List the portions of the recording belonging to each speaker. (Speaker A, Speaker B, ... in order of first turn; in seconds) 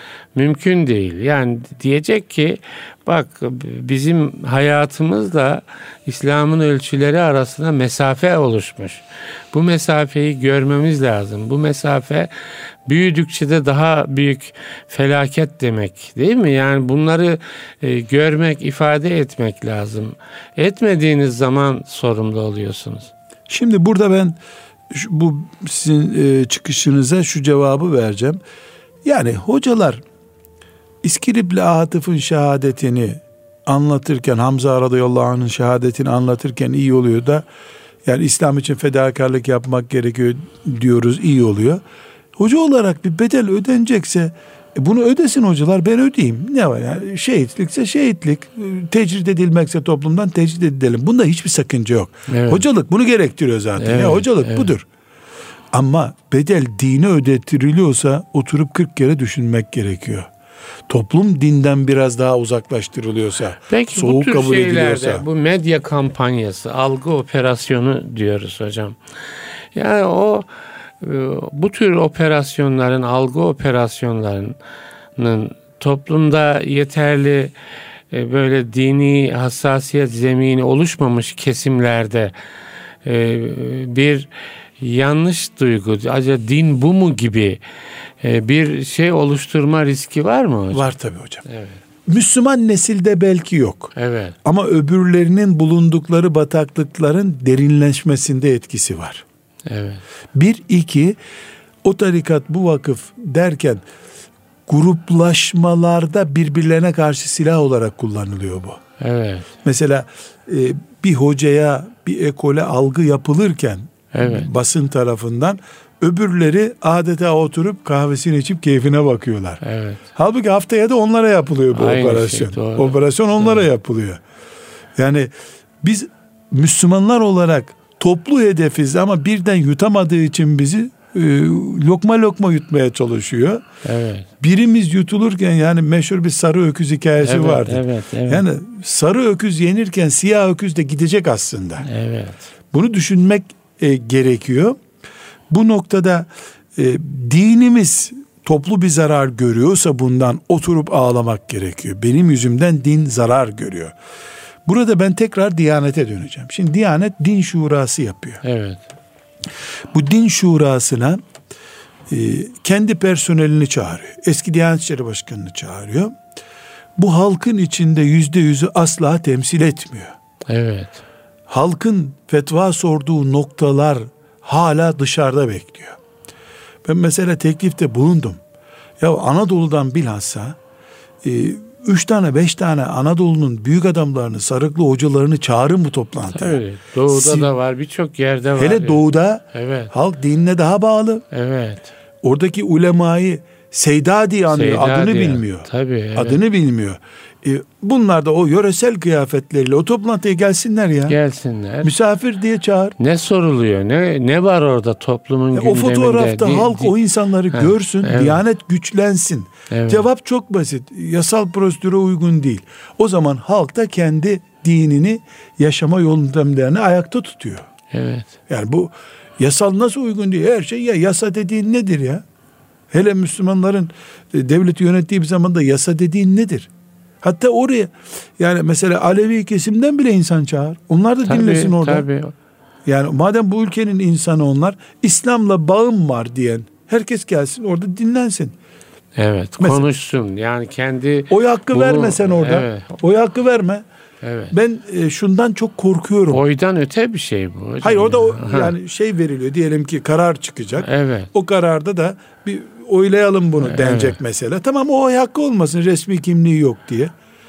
Speaker A: 0.3-12.3, 12.8-23.1, 52.3-52.6, 53.8-54.7, 63.7-69.0, 69.7-70.5, 71.0-74.5, 75.2-77.5, 78.1-82.3, 83.0-87.6, 88.2-90.9, 91.5-91.8, 94.0-94.3, 99.7-100.0, 109.0-109.5, 114.1-114.5, 119.6-120.0, 121.7-123.7, 133.8-134.3, 137.2-138.4, 141.8-142.5, 158.4-158.8, 170.5-171.0, 186.3-189.9, 191.3-191.9, 194.5-196.4, 201.1-201.9, 203.0-206.9, 207.5-208.4, 209.7-210.1, 217.9-218.3, 231.2-232.3, 239.2-242.9, 244.2-244.5, 246.3-248.7, 250.8-251.3, 253.6-254.2
Speaker B: 23.5-24.4, 24.9-28.4, 29.0-30.0, 31.0-37.5, 38.0-41.8, 42.4-54.8, 55.7-60.3, 60.9-65.2, 90.7-91.4, 92.0-99.2, 100.3-101.2, 101.8-103.8, 104.7-108.8, 109.6-119.6, 120.1-124.2, 125.0-125.3, 125.8-133.6, 134.4-141.9, 142.7-144.8, 145.5-153.9, 154.7-158.4, 159.9-161.2, 162.1-166.1, 167.0-170.1, 171.5-176.0, 176.8-178.4, 179.0-180.6, 181.2-187.5, 188.6-191.2, 192.2-201.2, 201.8-202.9, 205.5-217.7, 218.5-222.2, 222.9-226.7, 227.2-232.0, 232.8-238.5, 239.6-239.9, 241.3-243.8, 244.5-246.4, 247.8-257.1